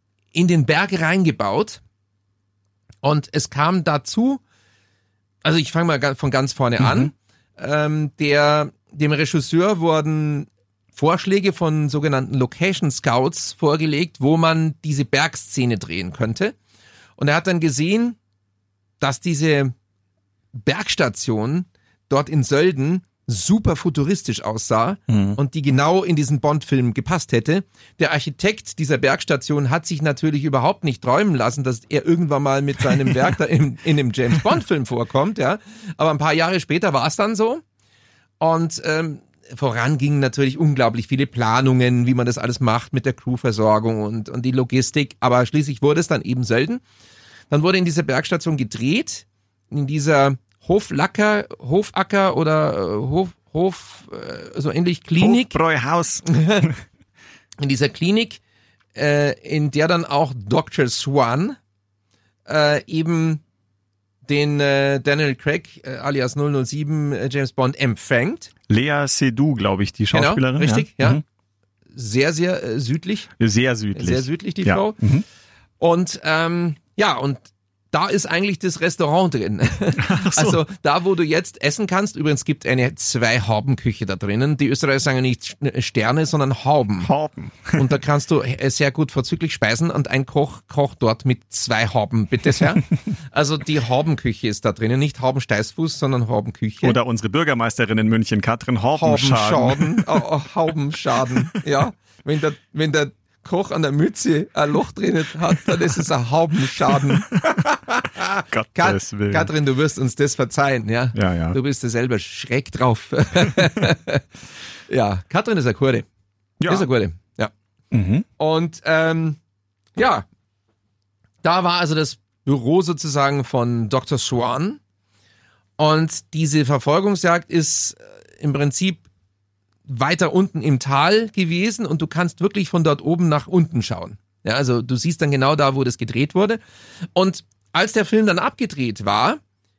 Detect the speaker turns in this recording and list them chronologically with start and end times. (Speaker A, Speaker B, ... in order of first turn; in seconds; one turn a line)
Speaker A: 0.3-1.8
Speaker A: 3.0-4.4
Speaker A: 5.4-16.5
Speaker B: 6.8-7.1
Speaker A: 17.2-18.2
Speaker A: 19.0-19.7
Speaker A: 20.6-37.6
Speaker B: 25.1-25.4
Speaker A: 38.4-46.8
Speaker A: 47.5-55.6
Speaker B: 55.2-56.7
Speaker A: 56.2-56.7
Speaker A: 57.6-58.4
Speaker A: 58.9-61.6
Speaker A: 62.5-63.4
Speaker A: 64.3-68.5
Speaker B: 68.7-71.2
Speaker A: 70.1-71.2
Speaker A: 71.9-73.3
Speaker B: 73.4-75.2
Speaker A: 73.9-75.0
Speaker A: 75.8-87.1
Speaker B: 80.0-80.6
Speaker B: 87.0-87.9
Speaker A: 87.7-97.0
Speaker B: 96.8-100.2
Speaker A: 99.0-114.2
Speaker B: 107.1-107.5
Speaker B: 108.5-109.5
Speaker B: 111.1-111.6
Speaker A: 114.9-116.0
Speaker B: 116.6-116.9
Speaker A: 116.7-117.5
Speaker B: 117.9-118.2
Speaker A: 118.4-119.4
Speaker A: 120.0-120.2
Speaker A: 121.4-124.8
Speaker A: 125.8-129.0
Speaker A: 129.9-136.6
Speaker A: 137.1-139.4